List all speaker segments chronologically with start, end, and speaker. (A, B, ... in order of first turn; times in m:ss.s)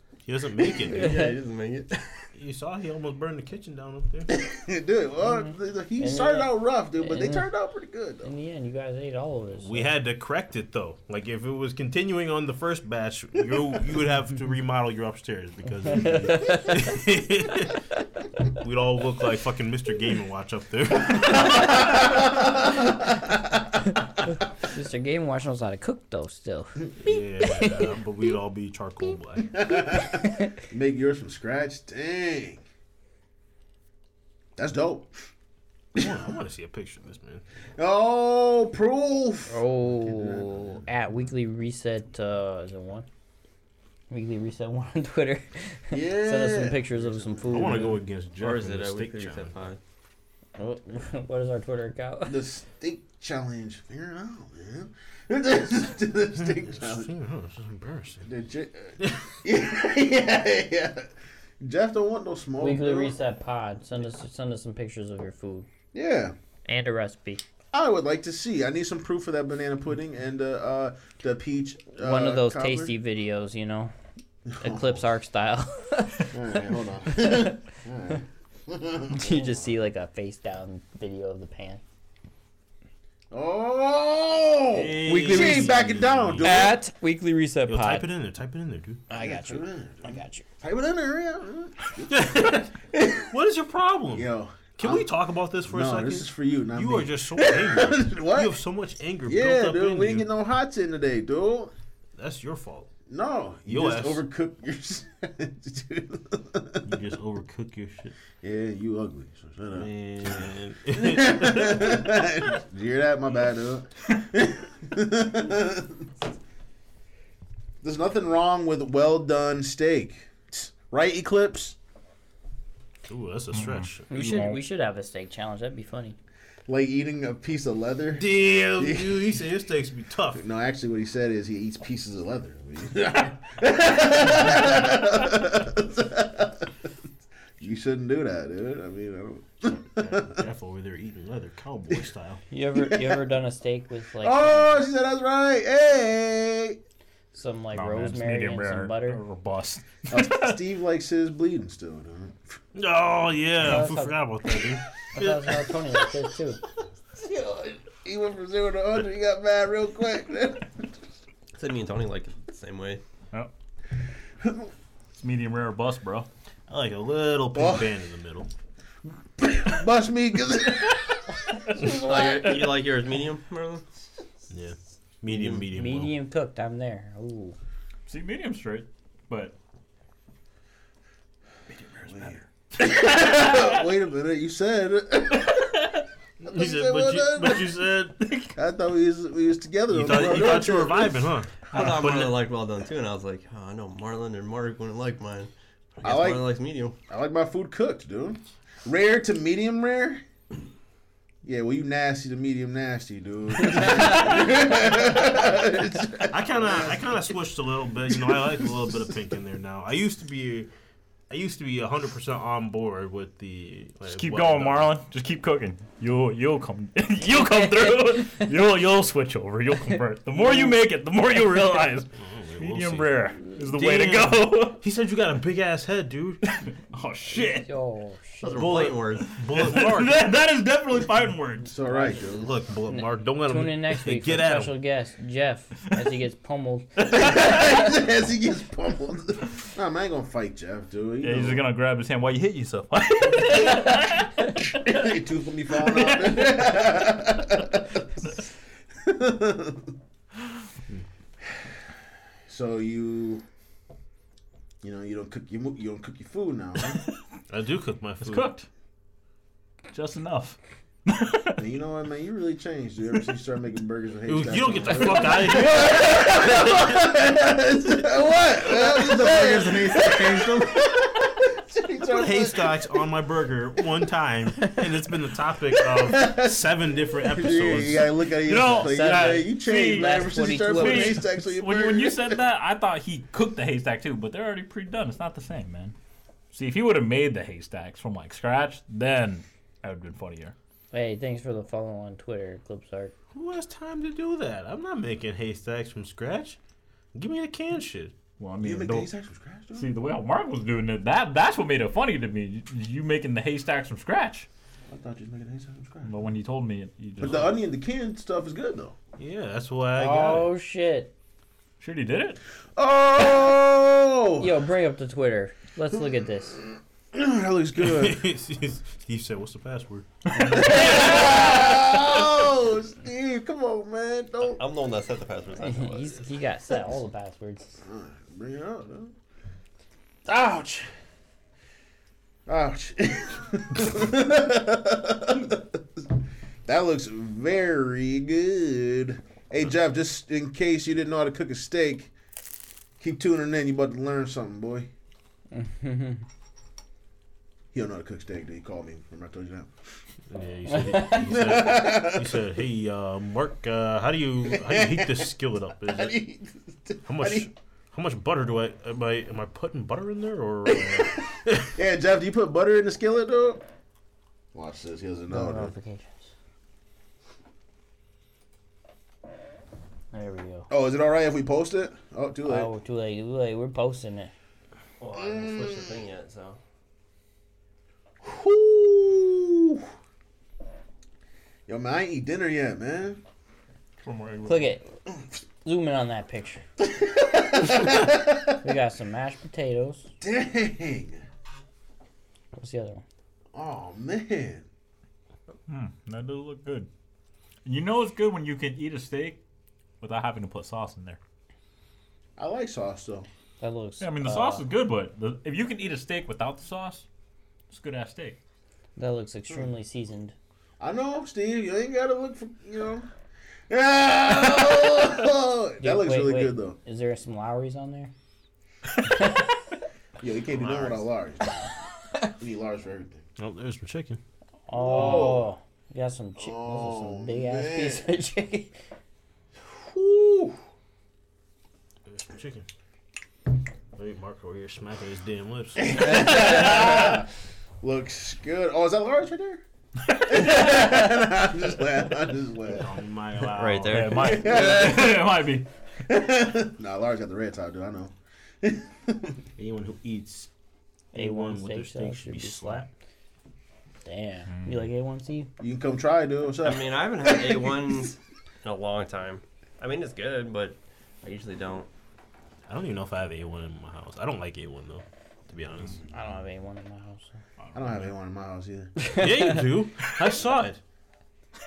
0:00.2-0:01.3 A
0:00.6-0:02.3 B
0:02.3-0:04.4 A
0:04.3-0:08.3 C
0:05.2-0:07.5 D
0:08.2-0:09.9 D
0:09.6-0:17.8 A
0:15.9-0:16.8 D
0:18.5-0:22.0 A
0:21.5-0:23.3 C
0:24.6-0:27.9 D
0:27.0-0:29.6 A
0:29.5-0:32.6 C
0:34.6-0:35.2 C
0:35.9-0:36.2 C
0:35.9-0:37.4 A
0:37.8-0:40.8 C
0:39.5-0:43.1 D
0:44.1-0:48.0 D
0:45.9-0:47.9 C
0:47.5-0:49.6 A
0:48.4-0:49.8 B
0:50.6-0:52.4 D
0:52.2-0:57.1 C
0:56.4-0:58.3 A
0:58.2-1:03.2 C
0:59.0-0:59.3 A
1:02.6-1:05.7 D
1:05.9-1:06.3 C
1:06.6-1:07.4 D
1:07.7-1:12.9 C
1:12.0-1:13.9 D
1:14.5-1:15.0 C
1:14.6-1:17.6 D
1:16.3-1:19.7 C
1:19.1-1:21.8 D
1:23.3-1:26.8 C
1:24.7-1:26.8 A
1:25.0-1:25.8 D
1:26.4-1:28.1 D
1:27.7-1:29.0 A
1:29.1-1:30.4 D
1:29.1-1:33.3 C
1:32.1-1:32.7 A
1:33.3-1:40.3 A
1:34.1-1:35.1 C
1:35.6-1:38.6 C
1:39.2-1:41.7 C
1:42.2-1:42.9 A
1:43.1-1:46.8 C
1:43.7-1:44.2 A
1:46.8-1:48.1 A
1:48.4-1:56.0 C
1:49.7-1:52.0 A
1:57.8-2:01.8 C
2:03.1-2:04.1 A
2:03.5-2:04.6 E
2:04.1-2:06.2 D
2:06.7-2:09.3 C
2:08.2-2:10.4 A
2:10.3-2:16.7 C
2:17.6-2:20.4 C
2:20.0-2:22.4 A
2:22.5-2:24.8 D
2:22.8-2:23.2 C
2:24.2-2:26.8 C
2:27.3-2:29.2 D
2:27.7-2:30.6 E
2:30.1-2:32.5 C
2:32.7-2:35.7 A
2:33.6-2:34.2 D
2:35.1-2:36.6 D
2:37.1-2:40.9 C
2:41.5-2:43.0 B
2:44.4-2:44.7 C
2:45.2-2:46.3 E
2:46.7-2:48.5 A
2:47.5-2:47.9 C
2:49.4-2:51.2 C
2:51.8-2:54.0 B
2:54.5-2:56.1 A
2:55.3-2:55.6 B
2:55.7-2:57.6 D
2:58.1-2:59.5 E
3:02.0-3:05.7 C
3:02.8-3:03.6 E
3:06.4-3:08.5 A
3:06.4-3:07.7 C
3:08.5-3:11.3 C
3:09.9-3:12.4 A
3:11.7-3:16.9 B
3:16.0-3:16.5 C
3:17.1-3:20.2 C
3:21.4-3:27.1 C
3:26.3-3:30.7 A
3:28.3-3:29.0 C
3:31.3-3:34.9 A
3:34.0-3:44.8 E
3:42.1-3:43.2 A
3:43.7-3:46.4 A
3:46.4-3:47.7 E
3:47.3-3:48.8 D
3:48.4-3:49.3 B
3:48.5-3:50.2 A
3:49.2-3:51.7 E
3:51.6-3:52.5 C
3:52.1-3:54.8 A
3:52.9-3:57.2 D
3:57.0-4:01.6 C
4:01.2-4:04.6 E
4:04.8-4:08.0 C
4:05.9-4:06.7 E
4:09.0-4:09.9 C
4:12.5-4:13.4 C
4:14.8-4:17.0 C
4:17.5-4:18.5 A
4:18.2-4:18.7 E
4:19.9-4:21.6 E
4:21.6-4:32.8 C
4:24.2-4:26.9 A
4:29.1-4:30.0 A
4:29.5-4:30.1 B
4:32.1-4:38.1 A
4:35.9-4:36.7 C
4:37.2-4:42.4 C
4:38.4-4:45.9 E
4:38.6-4:41.2 D
4:46.5-4:50.5 E
4:50.9-4:53.1 D
4:53.3-4:56.6 A
4:57.1-4:58.1 A
4:58.4-4:59.1 E
4:58.6-4:59.9 C
4:59.7-5:04.5 E
5:04.9-5:06.1 C
5:06.0-5:07.6 E
5:07.2-5:08.9 C
5:09.2-5:10.5 A
5:09.9-5:11.1 D
5:11.8-5:12.4 E
5:12.8-5:14.5 C
5:14.4-5:16.6 D
5:16.6-5:18.2 C
5:17.8-5:20.1 A
5:20.4-5:21.4 E
5:20.4-5:24.6 C
5:24.4-5:26.2 B
5:25.6-5:27.8 D
5:27.8-5:29.1 C
5:30.2-5:30.9 C
5:32.5-5:36.0 C
5:36.6-5:42.1 C
5:43.0-5:44.9 C
5:45.5-5:46.2 D
5:47.7-5:49.7 C
5:50.3-5:56.2 A
5:51.0-5:52.4 C
5:54.5-5:57.5 C
5:57.0-6:01.8 A
6:00.7-6:03.6 C
6:04.5-6:05.7 C
6:05.3-6:06.3 D
6:10.1-6:10.7 D
6:10.7-6:12.7 C
6:12.4-6:14.3 D
6:15.0-6:16.6 B
6:15.2-6:15.7 C
6:18.2-6:19.9 C
6:21.7-6:23.2 C
6:24.0-6:24.7 E
6:24.4-6:24.8 D
6:25.6-6:26.6 D
6:26.8-6:28.5 C
6:27.6-6:28.0 D
6:28.6-6:30.1 D
6:30.2-6:31.2 C
6:32.5-6:33.0 D
6:33.5-6:34.6 C
6:35.7-6:36.9 E
6:37.6-6:39.4 E
6:40.0-6:41.2 E
6:42.4-6:43.3 C
6:43.6-6:44.6 D
6:44.0-6:47.0 E
6:47.7-6:48.4 E
6:49.0-6:50.3 D
6:50.8-6:53.1 C
6:53.7-6:56.8 C
6:55.8-6:58.1 D
6:59.0-6:59.4 D
7:00.2-7:01.7 C
7:00.6-7:01.0 A
7:02.4-7:03.2 C
7:03.4-7:04.2 A
7:04.7-7:08.7 D
7:04.7-7:05.5 C
7:06.4-7:08.1 C
7:09.7-7:10.6 C
7:12.1-7:12.7 A
7:13.9-7:16.4 A
7:15.8-7:17.3 C
7:16.4-7:16.9 E
7:17.8-7:19.6 C
7:20.2-7:22.9 C
7:22.6-7:24.3 A
7:23.5-7:24.9 B
7:23.9-7:25.7 E
7:24.2-7:25.3 C
7:26.0-7:29.4 C
7:29.6-7:30.5 A
7:31.1-7:32.9 A
7:31.1-7:32.9 D
7:34.0-7:35.5 D
7:35.6-7:38.1 C
7:36.6-7:41.9 B
7:42.7-7:46.0 A
7:46.1-7:47.3 D
7:47.6-7:48.1 E
7:47.7-7:49.0 C
7:49.0-7:49.6 D
7:49.1-7:50.8 A